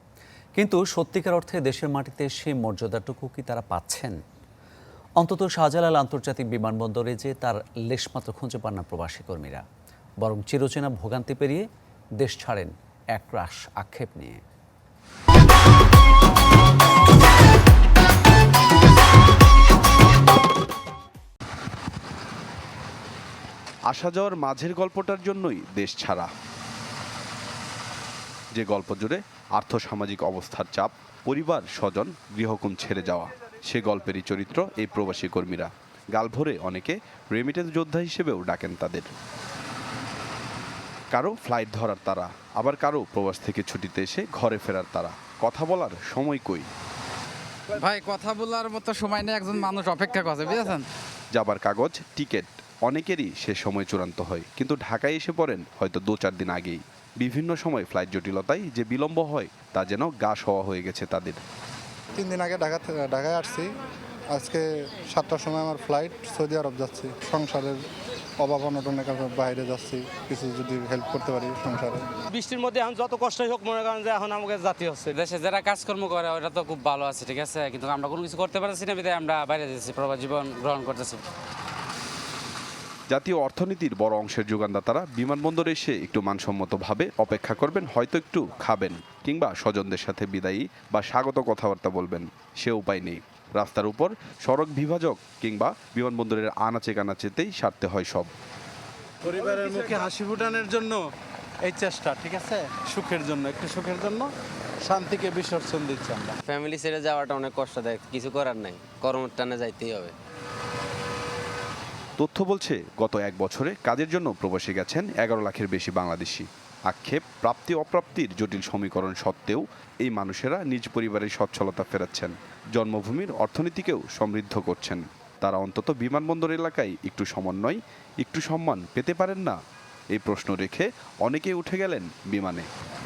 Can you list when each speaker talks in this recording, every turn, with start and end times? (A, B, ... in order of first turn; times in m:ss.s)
0:00.6-0:04.2 A
0:05.2-0:09.6 A
0:10.2-0:11.7 A
0:12.2-0:14.4 A
0:23.9-0:26.3 B
0:28.6-0:39.1 B
0:41.1-0:46.7 B
0:47.8-0:50.9 C
0:51.3-1:01.4 B
1:02.2-1:03.7 D
1:04.3-1:07.8 D
1:08.4-1:12.0 D
1:12.3-1:15.2 E
1:15.1-1:21.2 C
1:23.1-1:38.3 B
1:39.3-1:41.0 F
1:41.7-1:44.3 F
1:44.9-1:46.4 F
1:46.5-1:50.1 G
1:52.2-2:09.6 B
2:10.1-2:12.7 B